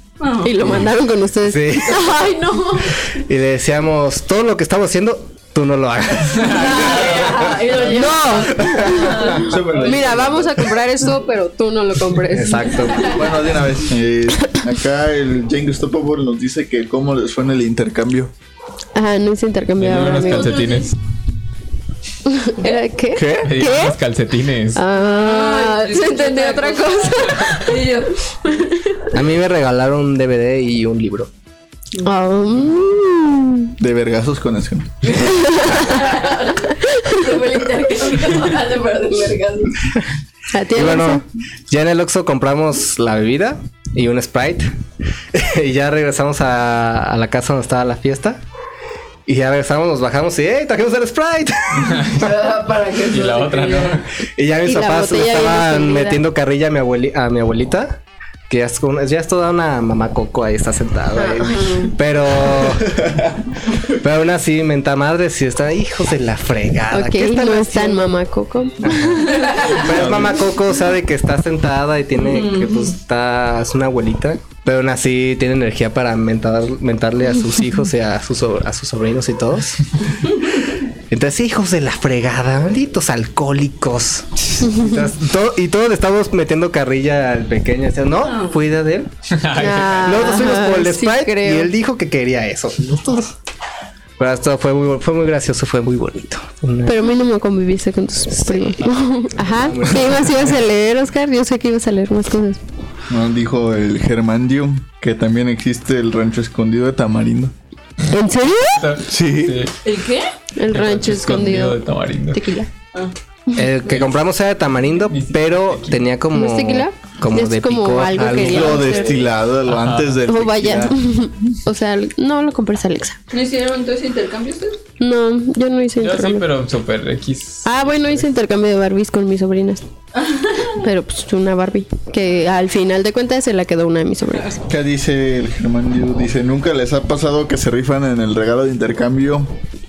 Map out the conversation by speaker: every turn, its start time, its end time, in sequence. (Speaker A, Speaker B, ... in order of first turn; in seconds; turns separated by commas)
Speaker A: 0.2-0.6, Speaker B: 0.4-3.0, Speaker C: 1.4-2.0, Speaker C: 3.1-7.7, Speaker A: 6.5-10.2, Speaker D: 6.6-7.0, Speaker B: 7.8-12.9, Speaker E: 8.7-10.7, Speaker C: 12.3-13.1, Speaker A: 12.8-13.2, Speaker E: 13.0-18.3, Speaker B: 18.9-20.6, Speaker D: 19.8-20.9, Speaker A: 20.2-20.9, Speaker B: 22.2-24.0, Speaker E: 23.1-23.5, Speaker D: 23.4-24.8, Speaker B: 24.7-27.7, Speaker A: 24.9-28.9, Speaker C: 29.1-31.3, Speaker B: 32.0-33.7, Speaker E: 33.8-34.9, Speaker A: 35.0-40.0, Speaker B: 35.2-36.1, Speaker B: 36.8-37.2, Speaker B: 40.5-41.2, Speaker C: 40.7-44.7, Speaker C: 45.3-48.4, Speaker C: 49.2-52.1, Speaker D: 51.7-52.4, Speaker A: 52.1-54.0, Speaker D: 53.1-54.1, Speaker C: 54.4-63.0, Speaker B: 54.6-56.2, Speaker B: 61.1-61.8, Speaker A: 61.5-61.9, Speaker C: 63.9-68.1, Speaker B: 66.9-69.4, Speaker D: 68.8-69.2, Speaker C: 68.8-79.9, Speaker A: 69.2-69.8, Speaker D: 69.8-70.4, Speaker A: 72.2-73.0, Speaker A: 80.2-80.7, Speaker C: 81.1-89.1, Speaker B: 84.6-85.0, Speaker A: 88.2-88.6, Speaker D: 89.3-90.3, Speaker B: 89.5-91.7, Speaker C: 89.9-93.3, Speaker C: 94.2-97.0, Speaker B: 96.8-102.6, Speaker C: 98.4-100.5, Speaker E: 103.1-107.5, Speaker B: 108.1-108.9, Speaker D: 108.8-109.7, Speaker E: 109.0-109.7, Speaker A: 109.8-110.3, Speaker B: 110.6-112.7, Speaker D: 110.7-112.4, Speaker C: 113.5-118.9, Speaker D: 113.9-114.1, Speaker D: 115.0-116.1, Speaker B: 116.3-119.2, Speaker E: 118.4-121.0, Speaker A: 118.8-119.2, Speaker D: 119.6-120.2, Speaker B: 120.3-123.2, Speaker A: 123.3-124.8, Speaker B: 125.0-126.4, Speaker D: 126.0-128.2, Speaker B: 127.6-129.8, Speaker A: 130.1-130.8, Speaker B: 130.8-134.6, Speaker E: 134.7-139.5